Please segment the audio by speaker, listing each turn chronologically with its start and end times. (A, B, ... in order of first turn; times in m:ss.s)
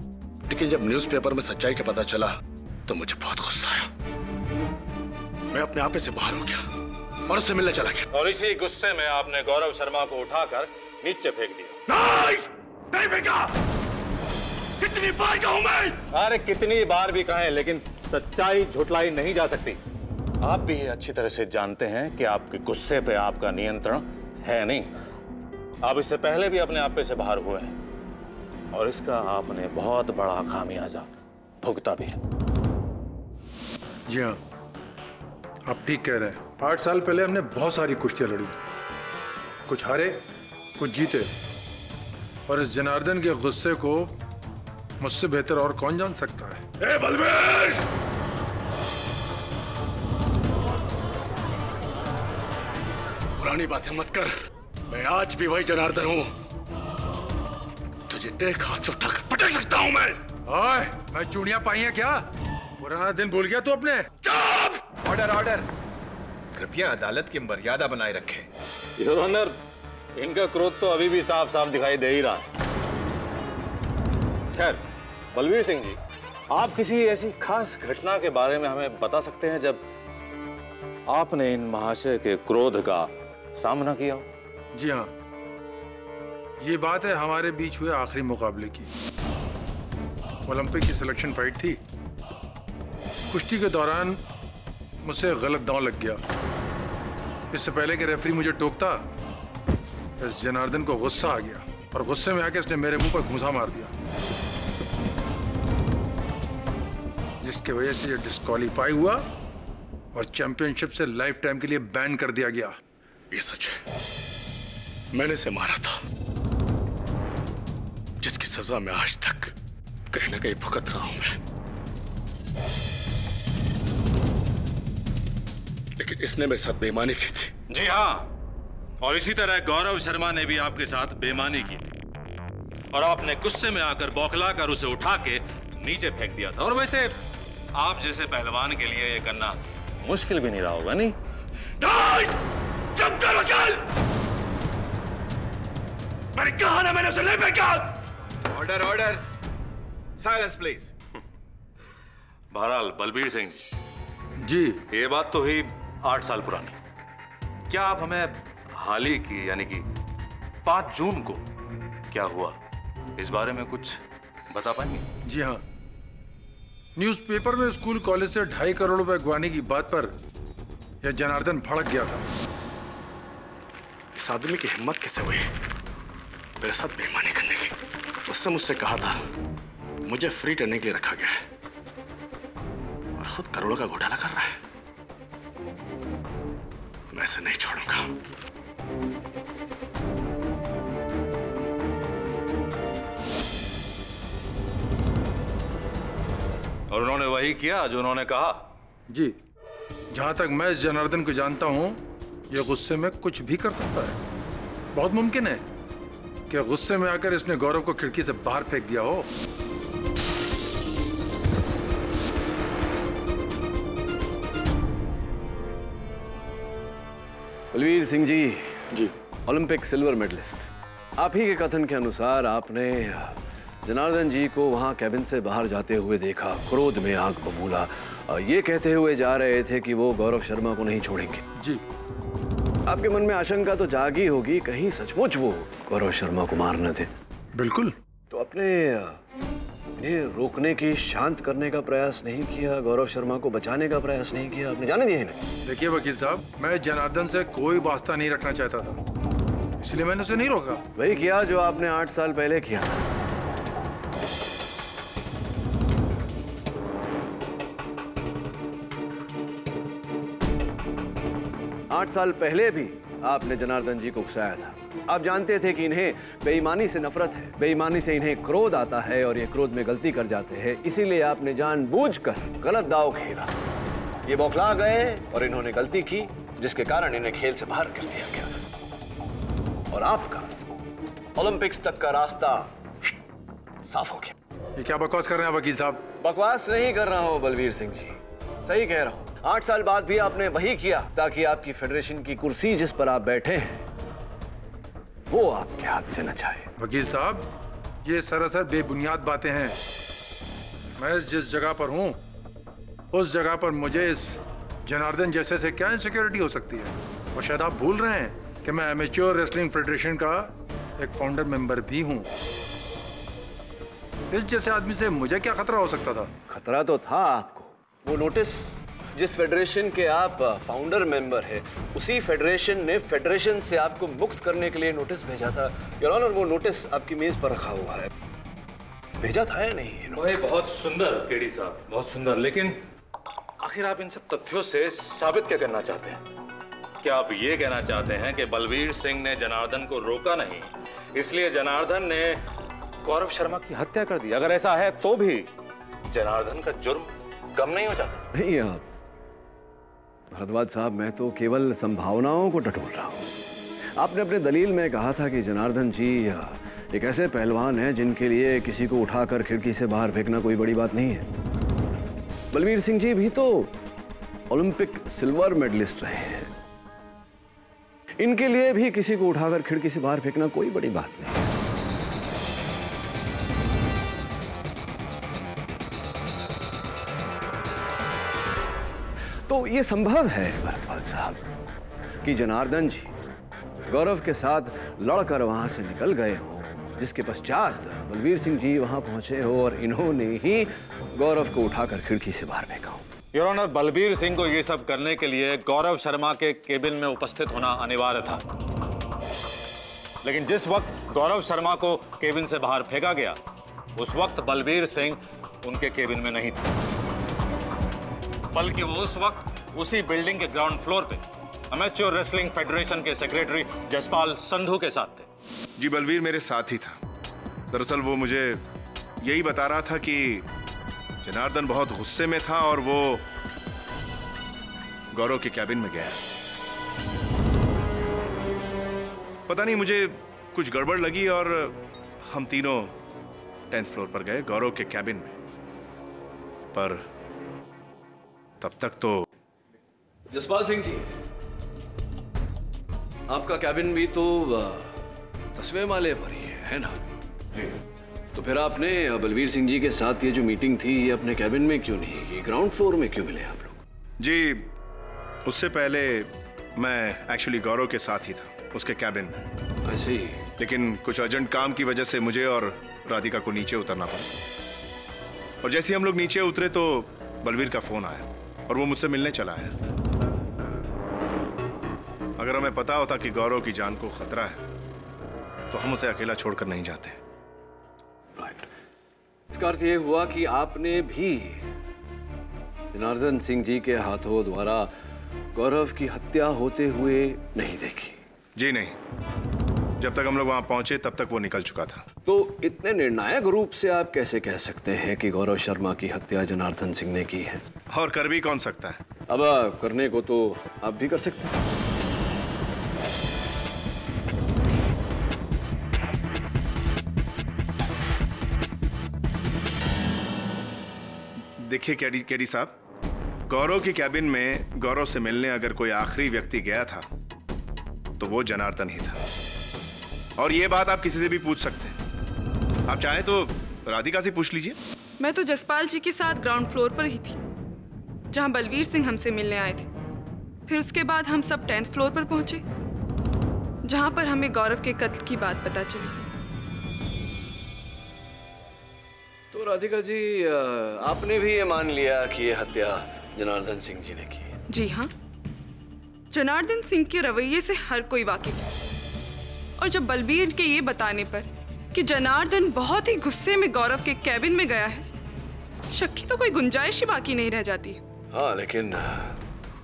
0:00.5-0:03.9 A
0:05.5-0:06.7 A
0:07.3-0:08.1 A
0:08.1-0:11.8 B
0:11.9-0:13.5 A
0:14.8-0:16.0 A
0:16.1-0:19.8 B
0:20.4-0:24.9 B
0:25.8-0:27.8 B
0:28.7-0:31.1 B
0:31.6-0:32.2 B
0:34.1-0:34.4 C
0:35.7-0:38.5 C
0:39.7-0:40.2 C
0:40.8-0:41.3 C
0:42.5-0:44.1 C
0:45.0-0:46.6 C
0:46.8-0:47.9 A
0:53.4-0:54.3 A
0:54.9-0:56.3 A
0:58.1-1:00.2 A
1:00.5-1:02.3 C
1:02.8-1:04.2 C
1:05.0-1:05.7 D
1:06.6-1:08.5 D
1:09.0-1:09.6 B
1:10.2-1:12.5 B
1:14.5-1:14.8 B
1:15.3-1:16.0 B
1:16.5-1:19.8 B
1:21.1-1:24.2 B
1:24.8-1:25.1 C
1:26.6-1:28.9 C
1:30.5-1:31.8 C
1:33.3-1:34.2 C
1:35.0-1:36.2 C
1:37.5-1:39.0 C
1:40.2-1:43.9 C
1:47.4-1:49.2 C
1:50.1-1:52.8 C
1:53.3-1:53.8 A
1:55.1-1:56.0 A
1:58.2-1:59.5 A
2:00.1-2:01.4 A
2:06.0-2:07.5 A
2:07.7-2:08.3 B
2:09.0-2:11.9 B
2:12.9-2:17.2 B
2:17.8-2:21.2 B
2:21.8-2:22.4 A
2:23.0-2:23.8 A
2:26.4-2:27.9 A
2:28.5-2:29.2 D
2:30.2-2:30.9 D
2:32.5-2:33.6 B
2:34.4-2:34.8 C
2:34.9-2:36.7 B
2:37.7-2:39.8 B
2:40.6-2:41.4 B
2:42.1-2:42.6 B
2:43.2-2:44.0 B
2:44.5-2:45.0 B
2:45.3-2:45.6 C
2:47.0-2:50.1 C
2:51.0-2:52.2 C
2:54.2-2:55.5 A
2:56.6-2:59.2 A
3:00.0-3:01.4 A
3:03.2-3:04.6 A
3:07.1-3:08.1 A
3:16.9-3:18.6 B
3:20.1-3:24.2 C
3:24.9-3:25.6 C
3:26.5-3:29.3 C
3:37.7-3:38.9 E
3:39.5-3:51.4 E
3:52.9-3:57.1 E
3:57.6-3:58.0 C
3:58.3-3:59.2 E
4:00.0-4:05.4 E
4:05.6-4:09.0 C
4:09.8-4:10.8 C
4:11.0-4:13.0 E
4:21.9-4:33.5 E
4:34.3-4:38.5 E
4:39.9-4:40.5 E
4:41.4-4:42.7 E
4:43.8-4:44.4 E
4:44.8-4:46.0 C
4:46.2-4:53.8 E
4:55.3-4:56.7 E
4:56.8-4:57.5 C
4:58.0-4:59.8 C
5:01.0-5:02.2 C
5:03.1-5:12.3 C
5:14.3-5:16.3 C
5:16.5-5:28.1 E
5:29.2-5:30.5 E
5:30.1-5:32.8 B
5:33.6-5:36.2 B
5:37.0-5:42.4 B
5:43.0-5:45.5 B
5:46.1-5:48.2 B
5:48.3-5:48.8 E
5:50.3-5:53.3 E
5:54.0-6:01.3 E
6:02.5-6:03.7 E
6:04.5-6:06.5 E
6:08.2-6:11.5 E
6:19.5-6:21.4 E
6:22.2-6:23.1 E
6:23.9-6:33.1 E
6:33.3-6:38.4 B
6:40.2-6:43.4 B
6:44.0-6:46.7 B
6:48.5-6:55.3 B
6:55.8-6:57.0 F
6:57.7-6:58.6 F
6:59.2-7:00.5 F
7:01.2-7:03.2 F
7:05.1-7:06.2 F
7:09.5-7:12.9 F
7:13.7-7:15.4 F
7:16.7-7:17.0 F
7:18.6-7:19.3 F
7:20.3-7:21.1 E
7:23.3-7:25.0 E
7:25.6-7:27.0 E
7:28.3-7:33.8 E
7:34.2-7:34.7 F
7:35.4-7:39.5 F
7:39.8-7:40.5 E
7:40.6-7:44.3 F
7:45.6-7:49.7 F
7:52.4-7:54.6 F
7:55.7-7:57.2 F
7:58.4-7:58.7 E
7:59.5-8:01.6 E
8:02.9-8:04.9 E
8:05.5-8:08.2 E
8:08.6-8:09.0 F
8:10.0-8:12.0 F
8:12.3-8:17.6 E
8:17.9-8:19.0 F
8:19.3-8:21.6 E
8:31.5-8:32.8 F
8:33.5-8:37.1 F
8:38.2-8:39.2 F
8:40.4-8:42.0 F
8:42.9-8:44.8 F
8:45.2-8:47.4 G
8:48.3-8:49.9 G
8:50.7-8:52.6 G
8:53.8-8:56.2 G
8:59.5-9:04.6 E
9:04.7-9:05.1 G
9:06.3-9:08.7 G
9:09.8-9:15.1 G
9:15.9-9:18.0 G
9:18.3-9:19.4 E